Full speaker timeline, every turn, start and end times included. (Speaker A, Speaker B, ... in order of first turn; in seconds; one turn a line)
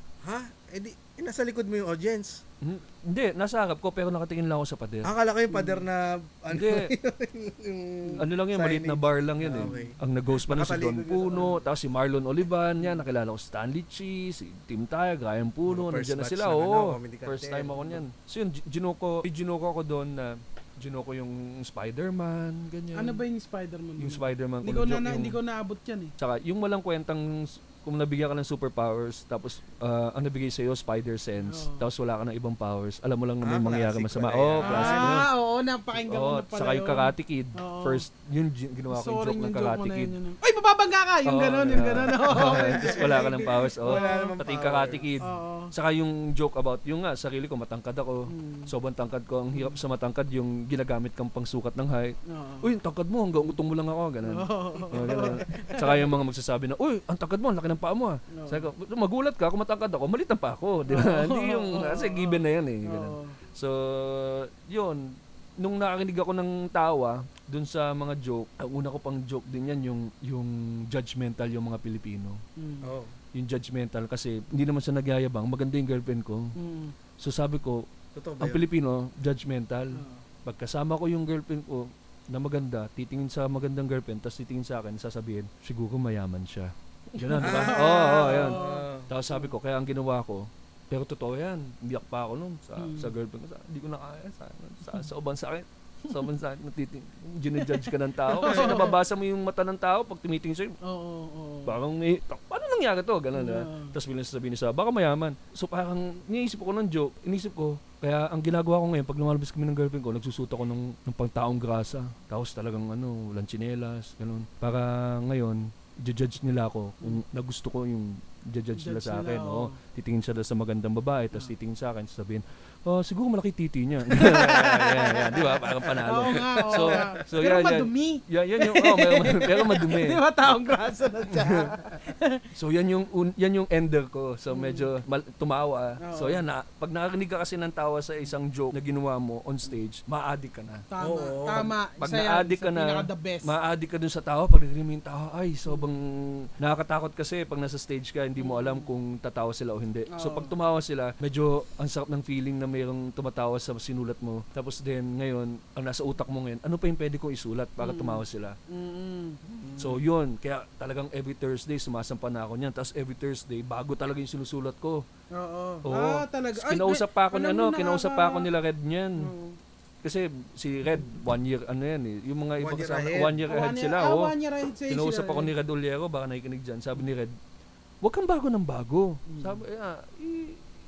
Speaker A: 0.2-2.4
Speaker B: 2.6-5.1
Speaker A: 5.0-11.7
Speaker C: 5.5-5.8
Speaker B: 6.5-6.9
Speaker B: 8.2-23.2
Speaker C: 9.5-10.0
Speaker A: 15.7-18.0
Speaker C: 23.0-26.1
Speaker B: 24.0-25.4
Speaker B: 26.2-35.3
Speaker C: 31.4-31.8
Speaker A: 33.4-35.2
Speaker C: 34.6-38.0
Speaker B: 36.0-40.1
Speaker C: 38.9-44.4
Speaker B: 41.3-72.4
Speaker A: 42.4-45.2
Speaker C: 45.2-45.7
Speaker C: 48.3-48.7
Speaker C: 49.5-49.8
Speaker C: 52.3-52.7
Speaker C: 54.2-56.1
Speaker A: 55.0-55.4
Speaker C: 58.3-58.7
Speaker C: 60.9-63.4
Speaker C: 72.6-72.9
Speaker A: 72.8-73.2
Speaker B: 73.3-76.5
Speaker C: 76.6-77.0
Speaker B: 77.2-77.9
Speaker A: 78.2-78.7
Speaker B: 78.4-100.8
Speaker C: 79.9-80.2
Speaker C: 87.2-89.5
Speaker A: 87.4-89.1
Speaker C: 92.8-93.1
Speaker C: 97.6-99.0
Speaker C: 100.8-101.8
Speaker B: 101.7-130.2
Speaker C: 103.3-104.0
Speaker C: 118.8-119.8
Speaker C: 124.1-132.4
Speaker A: 125.8-126.1
Speaker A: 126.7-127.1
Speaker B: 132.6-140.8
Speaker C: 134.5-134.9
Speaker C: 136.0-136.4
Speaker C: 140.9-143.5
Speaker A: 141.0-141.7
Speaker B: 141.5-158.6
Speaker C: 148.4-148.9
Speaker C: 150.1-150.5
Speaker C: 157.8-159.4
Speaker A: 159.6-160.0
Speaker B: 159.8-165.1
Speaker C: 165.3-168.5
Speaker B: 165.8-169.3
Speaker C: 169.2-169.6
Speaker B: 170.0-174.3
Speaker A: 172.6-173.4
Speaker C: 173.5-175.5
Speaker B: 174.9-177.3
Speaker B: 178.0-180.6
Speaker C: 179.3-179.6